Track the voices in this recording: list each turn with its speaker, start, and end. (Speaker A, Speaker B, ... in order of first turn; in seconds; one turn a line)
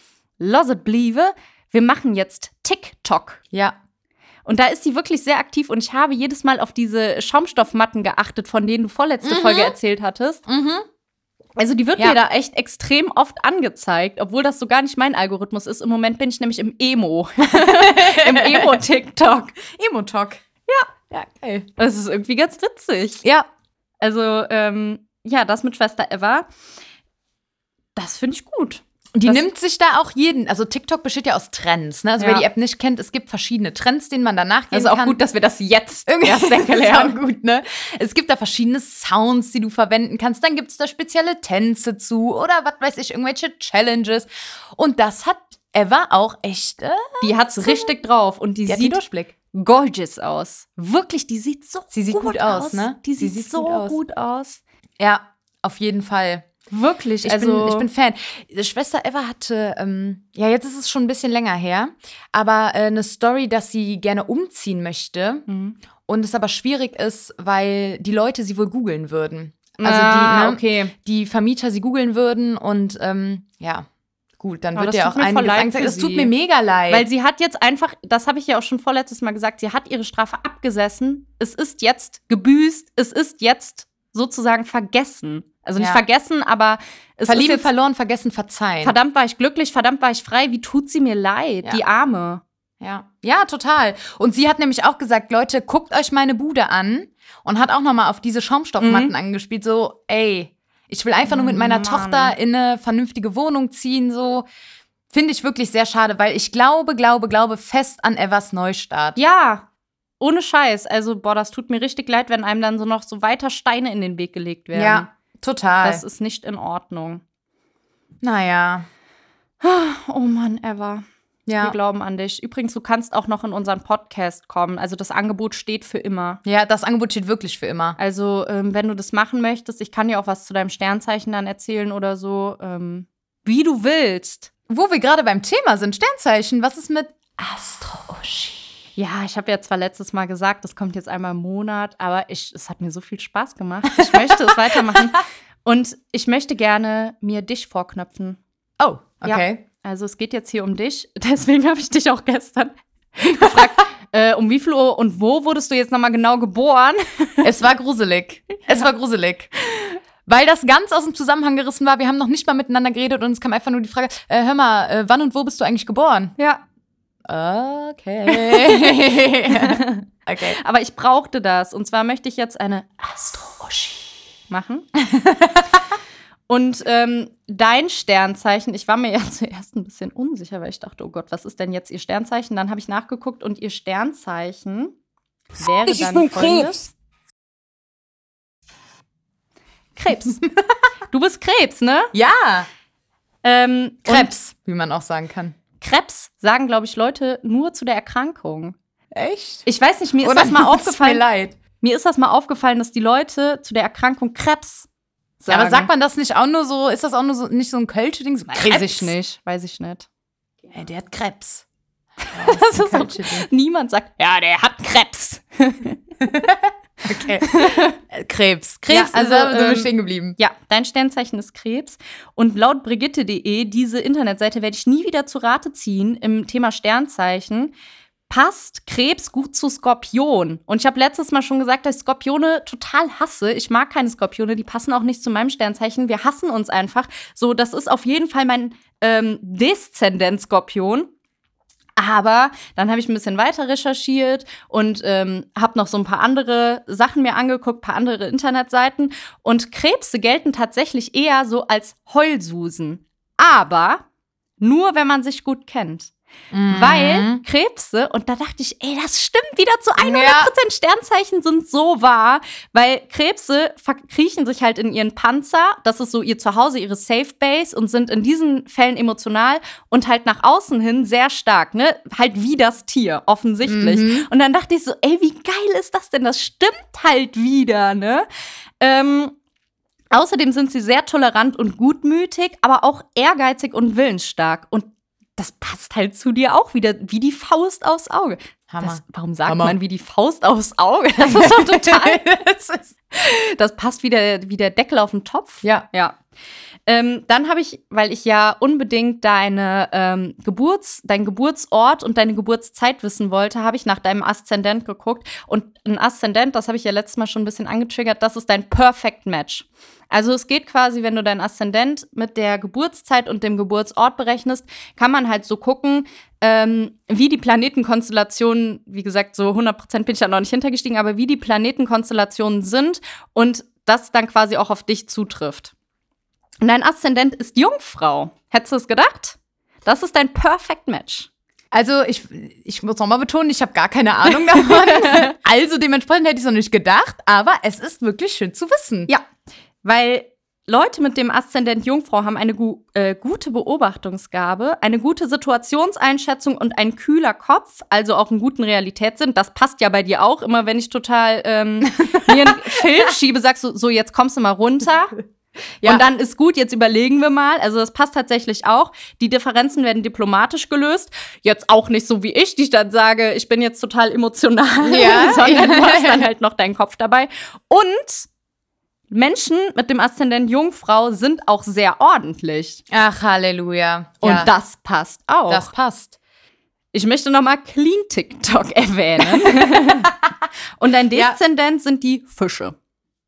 Speaker A: 0.4-3.4
Speaker A: 4.5-10.4
Speaker B: 9.2-9.8
Speaker B: 10.5-10.8
Speaker A: 11.6-19.6
Speaker B: 17.5-18.8
Speaker B: 19.6-20.4
Speaker B: 21.1-21.7
Speaker A: 21.8-23.2
Speaker A: 24.0-26.5
Speaker A: 27.9-29.4
Speaker B: 29.1-35.2
Speaker A: 32.2-32.5
Speaker A: 34.7-37.1
Speaker B: 36.1-47.9
Speaker A: 47.2-54.6
Speaker B: 48.7-49.3
Speaker B: 51.9-54.0
Speaker B: 55.0-56.5
Speaker A: 56.7-57.9
Speaker B: 57.2-65.5
Speaker A: 65.5-65.8
Speaker B: 66.0-73.9
Speaker A: 69.8-70.9
Speaker B: 74.4-77.1
Speaker A: 74.7-76.3
Speaker A: 76.9-87.7
Speaker B: 85.8-86.0
Speaker B: 87.3-89.0
Speaker A: 88.8-92.4
Speaker B: 92.8-104.5
Speaker A: 98.8-99.1
Speaker A: 101.2-102.3
Speaker B: 105.1-109.2
Speaker A: 109.2-109.7
Speaker A: 110.2-115.1
Speaker B: 114.7-116.0
Speaker A: 115.8-117.2
Speaker B: 118.2-118.9
Speaker A: 119.6-121.0
Speaker B: 121.5-121.8
Speaker A: 121.6-126.4
Speaker B: 126.4-128.0
Speaker A: 128.0-134.5
Speaker B: 134.7-138.7
Speaker A: 138.9-148.4
Speaker B: 144.0-145.0
Speaker B: 148.8-149.6
Speaker A: 149.2-157.5
Speaker B: 157.4-159.5
Speaker B: 160.2-166.3
Speaker B: 167.2-170.6
Speaker A: 168.3-174.9
Speaker B: 175.0-175.7
Speaker A: 176.5-184.9
Speaker A: 185.6-186.9
Speaker A: 189.9-190.4
Speaker A: 191.1-192.1
Speaker B: 192.1-192.7
Speaker A: 193.4-194.3
Speaker B: 194.0-195.6
Speaker A: 195.8-198.8
Speaker B: 199.1-199.6
Speaker A: 199.6-201.2
Speaker B: 200.2-201.6
Speaker A: 201.8-204.9
Speaker A: 205.4-205.9
Speaker B: 205.5-209.1
Speaker A: 208.5-210.1
Speaker B: 210.7-211.6
Speaker A: 212.2-216.0
Speaker B: 212.3-213.5
Speaker B: 216.2-220.4
Speaker A: 217.4-218.0
Speaker A: 218.9-227.7
Speaker A: 228.3-241.1
Speaker A: 242.0-254.0
Speaker A: 254.6-256.1
Speaker B: 256.5-257.4
Speaker A: 256.7-278.2
Speaker B: 260.0-260.5
Speaker B: 273.6-274.3
Speaker A: 278.8-279.3
Speaker A: 280.1-292.3
Speaker B: 288.7-289.8
Speaker B: 291.2-292.9
Speaker A: 293.1-296.2
Speaker A: 296.9-325.7
Speaker A: 326.6-331.3
Speaker B: 331.7-339.1
Speaker A: 334.5-335.3
Speaker A: 339.8-355.2
Speaker B: 352.1-352.8
Speaker A: 355.8-368.3
Speaker B: 364.8-366.3
Speaker A: 369.1-372.8
Speaker B: 372.9-374.5
Speaker A: 374.2-375.7
Speaker B: 375.5-376.2
Speaker A: 376.9-380.1
Speaker B: 379.4-380.1
Speaker A: 380.8-382.7